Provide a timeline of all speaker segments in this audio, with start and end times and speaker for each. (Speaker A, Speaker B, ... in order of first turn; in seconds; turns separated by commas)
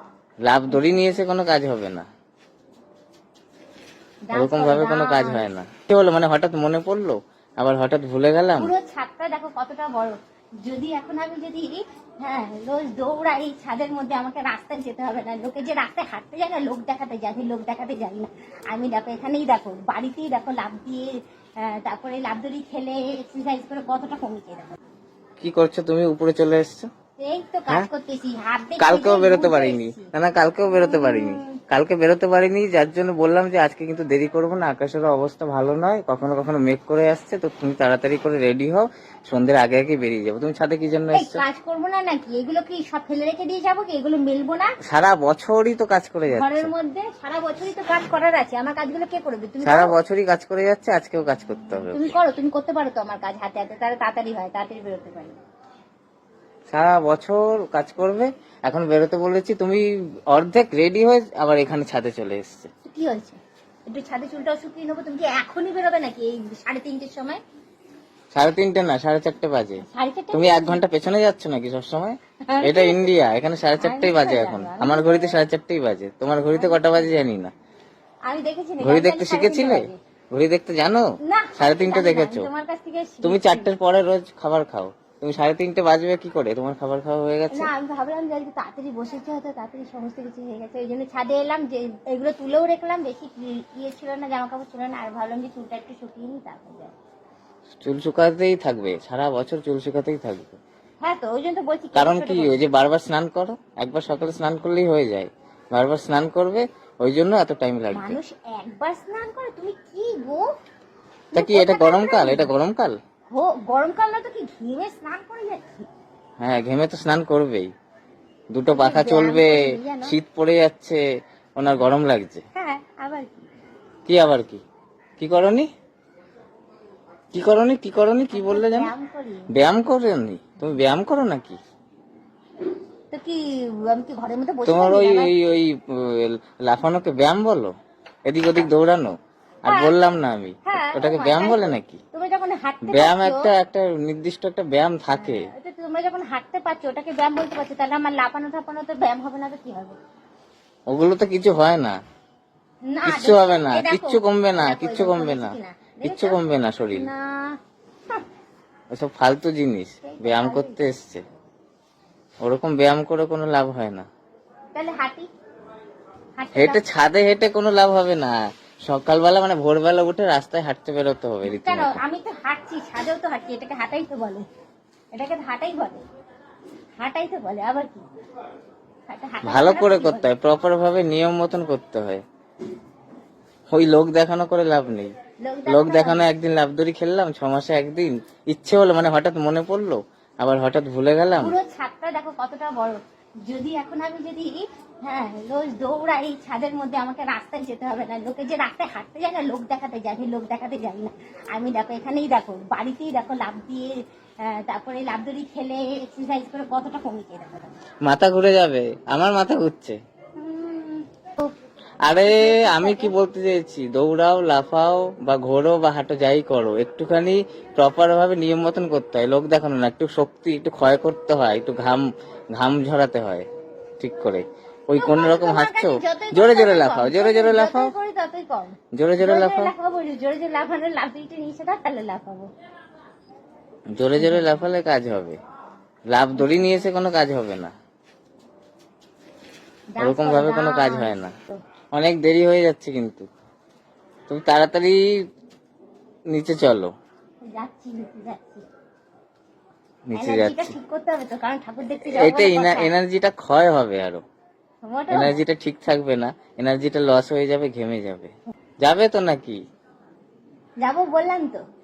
Speaker A: 0.4-2.0, Speaker B: 4.3-5.4, Speaker A: 4.3-8.7, Speaker B: 8.6-24.8, Speaker A: 25.4-26.9, Speaker B: 27.2-30.1, Speaker A: 28.8-41.4, Speaker B: 30.6-31.6, Speaker B: 41.1-44.7, Speaker A: 44.9-46.7, Speaker B: 46.3-49.9, Speaker A: 49.6-52.2, Speaker B: 51.8-55.4, Speaker A: 56.7-62.7, Speaker B: 62.8-67.4, Speaker A: 68.3-77.5, Speaker B: 69.8-70.8, Speaker B: 72.5-73.1, Speaker B: 73.8-75.4, Speaker B: 76.5-77.1, Speaker B: 78.2-80.0, Speaker A: 78.8-82.5, Speaker B: 81.2-83.7, Speaker A: 83.2-87.7, Speaker B: 87.5-96.9, Speaker A: 97.8-100.6, Speaker B: 101.0-102.6, Speaker A: 101.9-108.2, Speaker B: 107.9-110.4, Speaker B: 111.3-112.5, Speaker A: 111.3-113.0, Speaker B: 113.3-115.9, Speaker A: 116.4-117.7, Speaker A: 118.5-121.0, Speaker B: 118.7-120.1, Speaker A: 121.6-122.4, Speaker B: 122.5-123.3, Speaker A: 124.0-124.6, Speaker A: 125.2-125.7, Speaker A: 127.3-128.9, Speaker B: 128.3-129.5, Speaker A: 129.5-131.6, Speaker B: 133.1-135.3, Speaker A: 134.6-137.7, Speaker A: 138.3-142.0, Speaker B: 139.7-139.9, Speaker B: 140.6-143.5, Speaker A: 142.8-145.5, Speaker B: 145.2-150.0, Speaker A: 150.9-152.0, Speaker B: 152.8-156.4, Speaker A: 153.0-157.1, Speaker B: 156.9-157.6, Speaker A: 158.9-161.2, Speaker B: 160.0-160.8, Speaker A: 162.4-164.1, Speaker B: 164.7-165.3, Speaker B: 166.4-166.8, Speaker A: 166.5-172.0, Speaker B: 171.5-174.4, Speaker B: 175.1-176.0, Speaker B: 177.0-178.1, Speaker B: 179.1-180.3, Speaker A: 179.4-182.2, Speaker A: 183.7-185.1, Speaker B: 185.4-186.3, Speaker A: 185.7-191.6, Speaker B: 191.4-207.7, Speaker A: 208.0-210.0, Speaker B: 210.4-211.5, Speaker A: 212.0-223.4, Speaker B: 212.1-213.1, Speaker A: 224.0-227.9, Speaker B: 225.0-232.5, Speaker A: 228.9-229.7, Speaker A: 233.9-235.4, Speaker B: 234.2-234.5, Speaker A: 236.1-237.7, Speaker B: 236.3-236.8, Speaker B: 239.9-241.6, Speaker A: 240.0-241.3, Speaker A: 241.9-243.3, Speaker A: 244.3-245.0, Speaker A: 246.3-246.9, Speaker B: 247.5-248.6, Speaker A: 250.1-250.7, Speaker B: 250.2-252.9, Speaker A: 252.0-254.2, Speaker B: 254.8-255.4, Speaker A: 255.1-259.6, Speaker B: 260.8-261.6